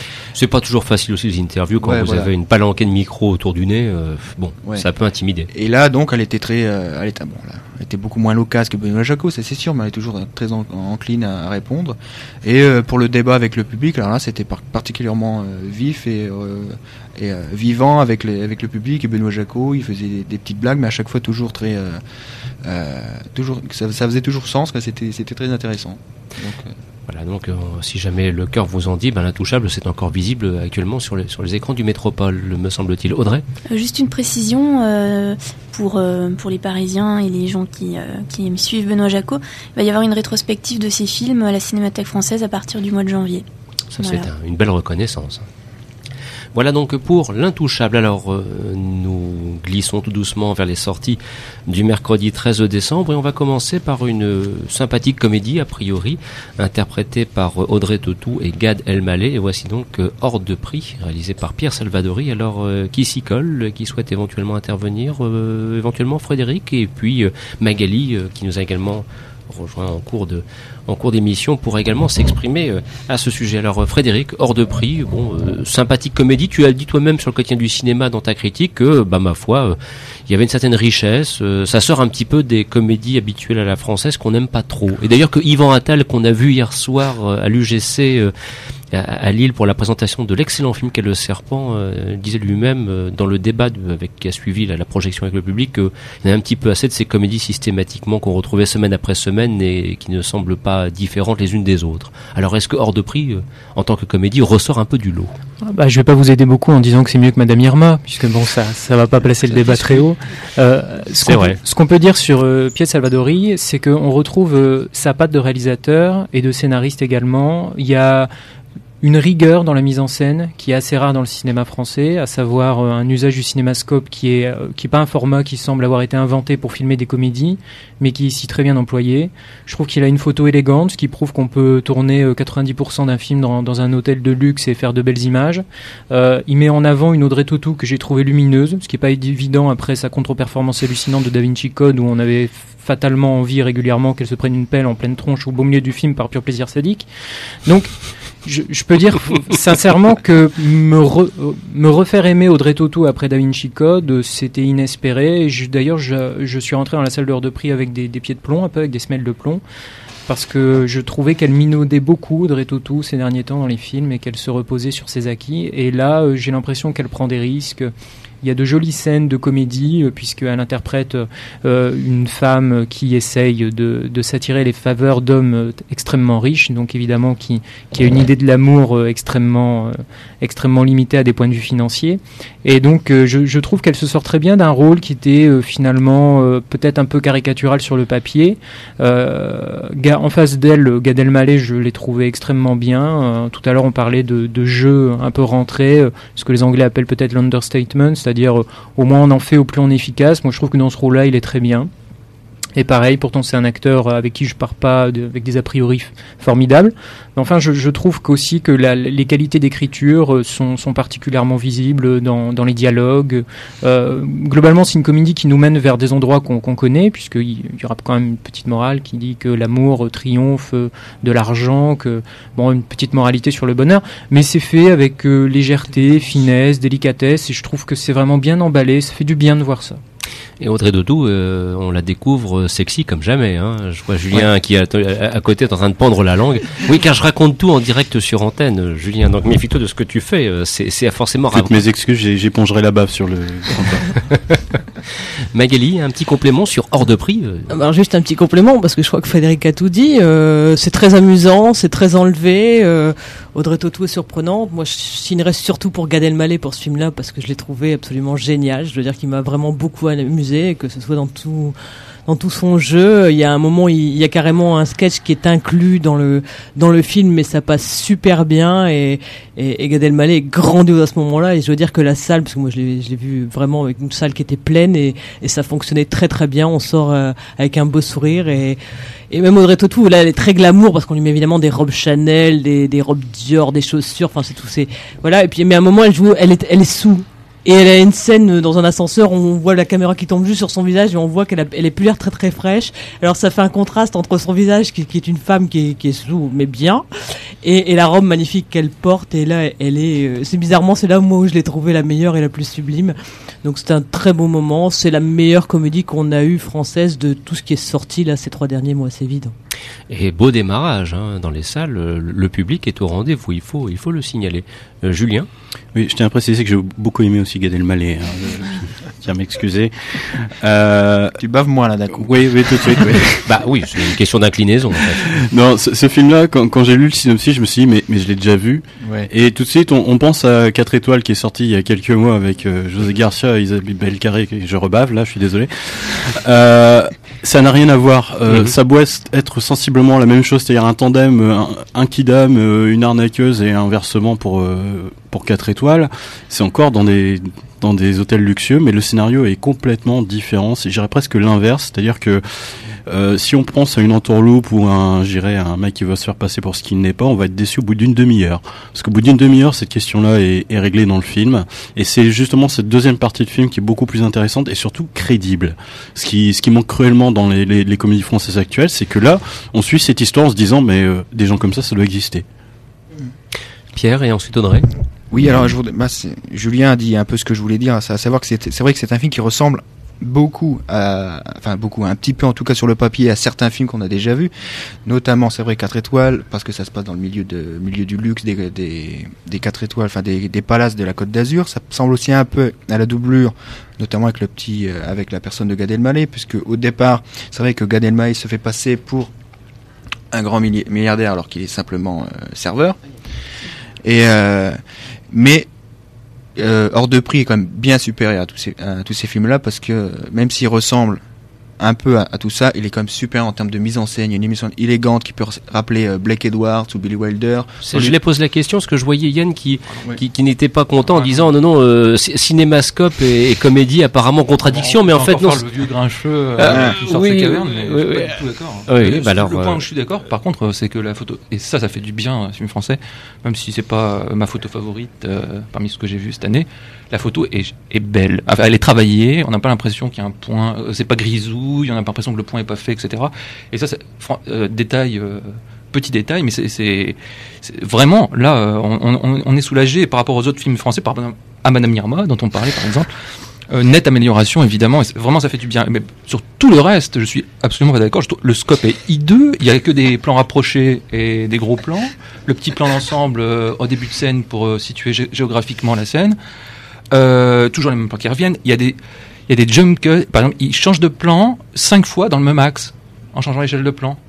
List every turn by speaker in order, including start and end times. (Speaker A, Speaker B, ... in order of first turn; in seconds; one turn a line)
Speaker A: 0.3-5.5
Speaker B: 1.8-2.3
Speaker B: 5.5-22.0
Speaker B: 22.6-26.7
Speaker A: 27.1-33.4
Speaker C: 33.7-43.4
Speaker A: 43.9-45.5
Speaker C: 44.0-44.3
Speaker A: 46.5-79.8
Speaker A: 80.3-88.3
Speaker A: 88.9-105.3
Speaker D: 105.6-118.3
Speaker A: 111.2-111.6
Speaker D: 119.0-147.1
Speaker D: 147.7-147.9
Speaker D: 148.4-159.6
Speaker D: 160.3-167.9
Speaker D: 168.4-201.9
Speaker D: 202.8-230.0
Speaker A: 230.6-241.8
Speaker E: 241.5-244.1
Speaker A: 244.3-244.6
Speaker A: 245.5-247.7
Speaker F: 247.7-261.7
Speaker F: 262.3-297.0
Speaker F: 297.6-309.5
Speaker A: 310.1-315.5
Speaker E: 315.9-321.3
Speaker B: 321.4-323.2
Speaker E: 322.1-323.4
Speaker A: 323.4-325.3
Speaker E: 325.3-372.4
Speaker A: 373.9-374.9
Speaker B: 375.3-384.5
Speaker B: 385.0-399.3
Speaker B: 400.3-403.0
Speaker B: 404.0-404.8
Speaker B: 405.3-405.7
Speaker B: 406.6-411.2
Speaker B: 411.8-418.1
Speaker A: 417.8-425.6
Speaker G: 421.1-421.5
Speaker G: 424.6-453.1
Speaker A: 426.6-429.9
Speaker G: 453.7-466.4
Speaker G: 467.1-474.2